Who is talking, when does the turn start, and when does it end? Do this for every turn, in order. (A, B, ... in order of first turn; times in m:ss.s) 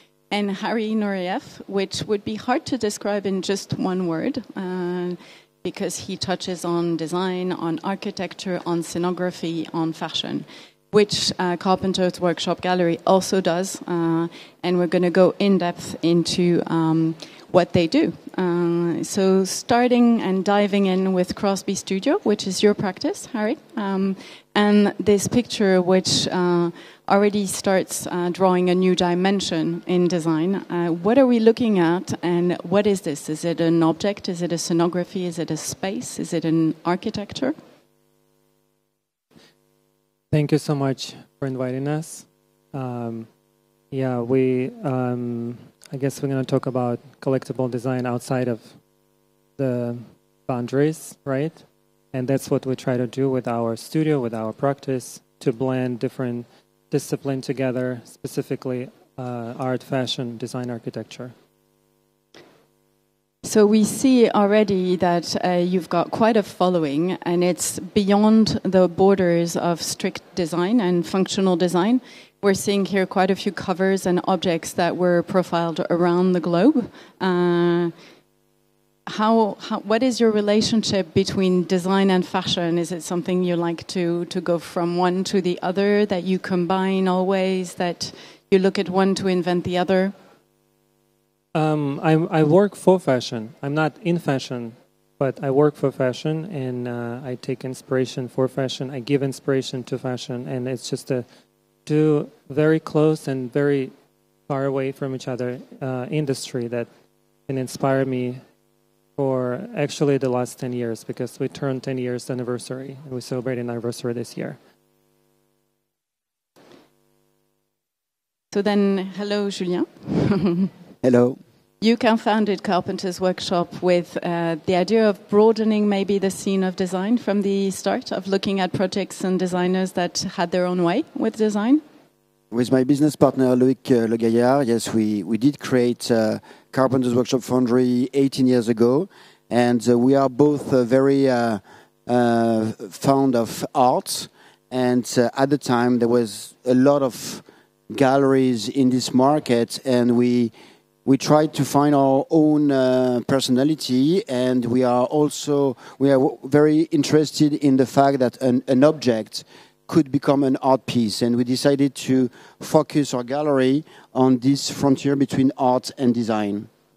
0:00.3-0:37.5 A
0:40.3-0:43.3 B
0:43.9-0:48.8 B
0:49.6-1:01.3 B
1:03.4-1:17.9 A
1:19.1-1:30.1 A
1:31.5-1:41.2 B
1:41.8-1:43.9 B
1:44.5-1:46.9 B
1:47.5-1:48.4 B
1:49.2-1:54.6 B
1:58.5-2:00.7 A
2:01.0-2:01.4 C
2:01.8-2:11.8 A
2:12.5-2:30.5 C
2:31.0-2:46.7 C